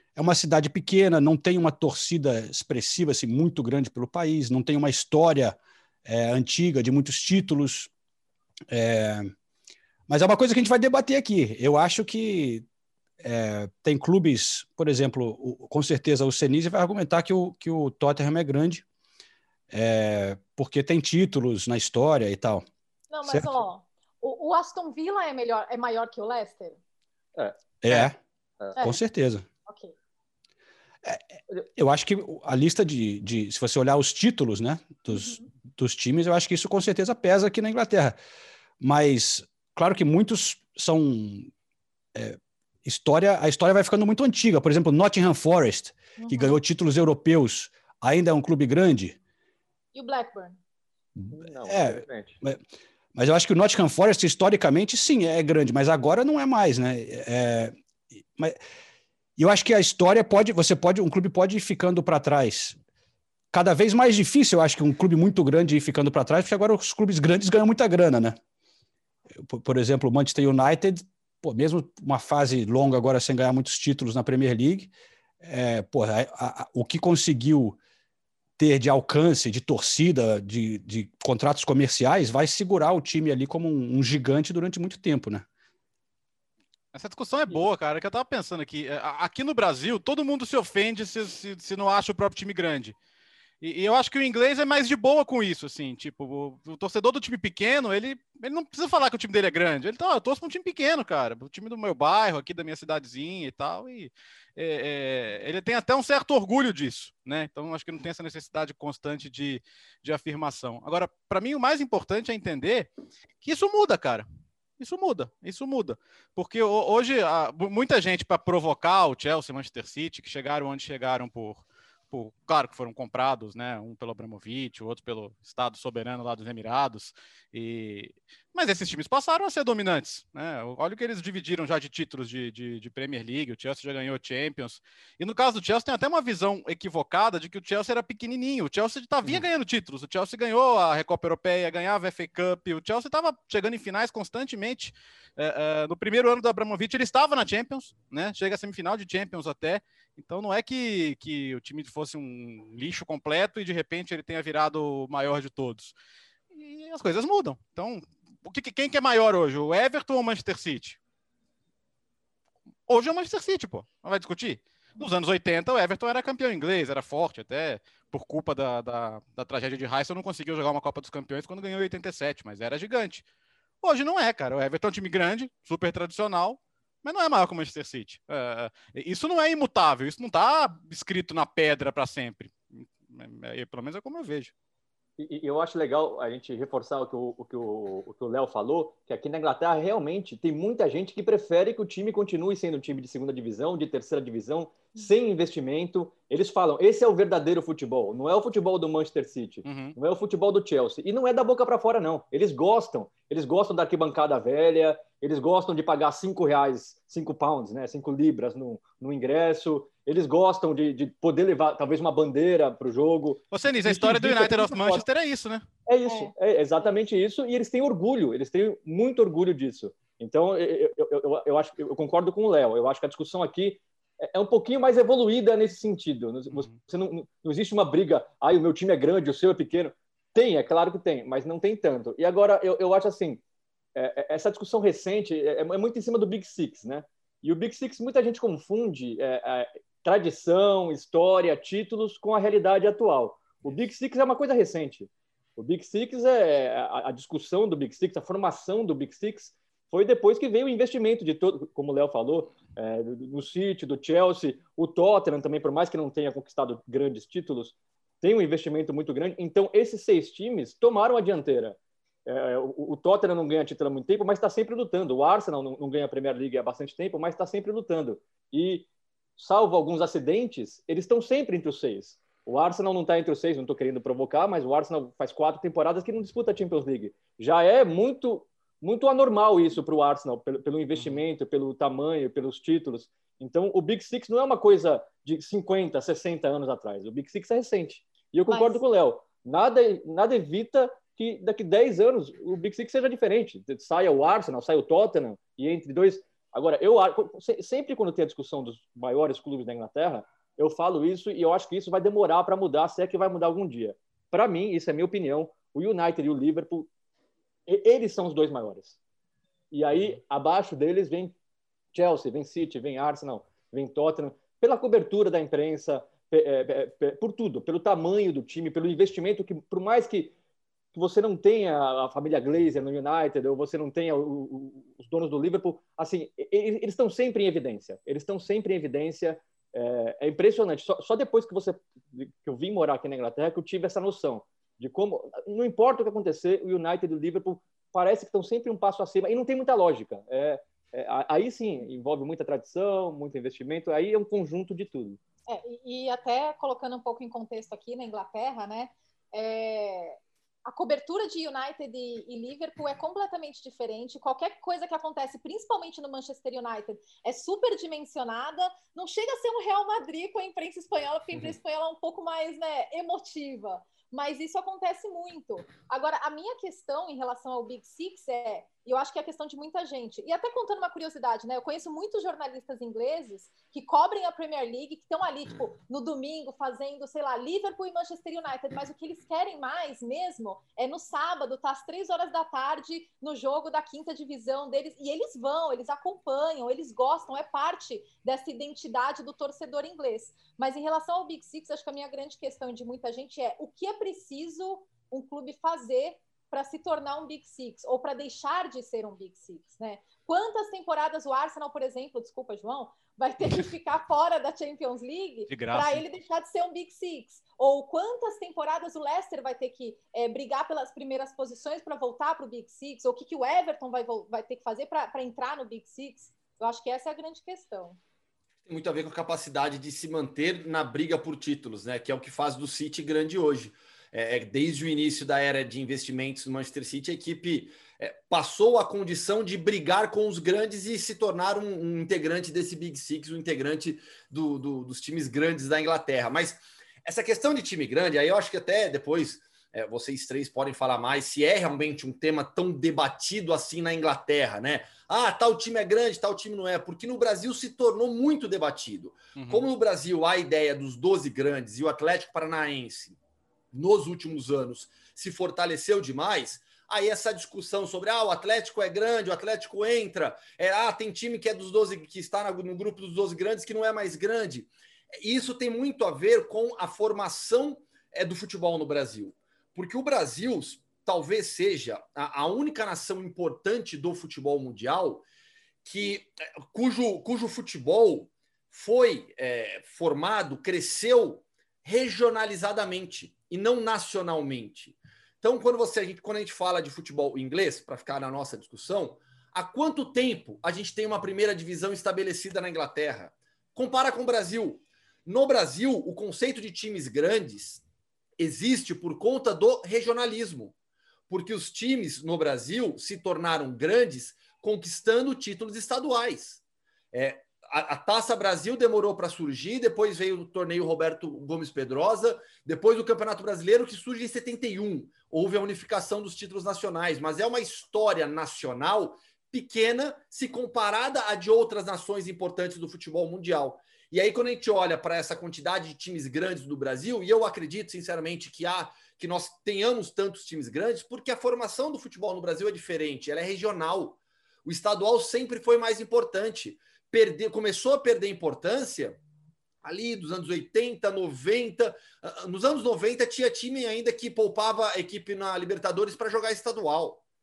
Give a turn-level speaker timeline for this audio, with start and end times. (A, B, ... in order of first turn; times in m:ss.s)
0:00.2-0:07.9 A
0:08.7-0:09.3 A
0:10.1-0:12.6 A
0:13.2-0:18.8 A
0:19.7-0:22.6 A
0:23.1-0:26.8 B
0:27.4-0:28.8 C
0:27.8-0:28.2 A
0:28.8-0:29.4 A
0:29.7-0:29.9 B
0:31.8-0:38.2 A
0:35.1-0:35.5 B
0:38.8-0:41.5 A
0:42.2-0:49.2 A
0:46.2-0:46.6 B
0:49.9-0:50.6 B
0:51.2-0:52.6 A
0:51.3-0:52.4 C
0:53.2-0:57.8 A
0:59.4-1:02.8 A
1:03.5-1:08.4 A
1:09.4-1:17.8 A
1:18.6-1:25.5 A
1:26.9-1:33.0 D
1:33.6-1:52.9 D
1:53.4-1:54.3 D
1:54.8-2:35.9 D
2:36.5-2:41.0 D
2:42.9-2:53.2 D
2:53.8-3:04.5 D
3:05.2-3:35.1 C
3:19.6-3:20.0 D
3:33.5-3:35.7 D
3:35.9-3:53.4 C
3:36.0-3:36.3 B
3:54.0-5:06.9 C
4:40.9-4:41.2 D
4:48.5-4:48.8 B
5:07.7-5:09.0 C
5:09.7-5:11.4 C
5:11.9-5:20.3 C
5:20.9-5:45.2 C
5:45.5-6:58.0 B
6:45.5-6:46.0 D
6:58.7-7:33.2 E
7:29.4-7:29.7 D
7:33.7-7:55.2 E
7:55.8-8:17.8 E
8:18.4-8:20.8 E
8:21.3-8:26.6 E
8:27.1-8:59.2 E
8:59.8-9:07.2 E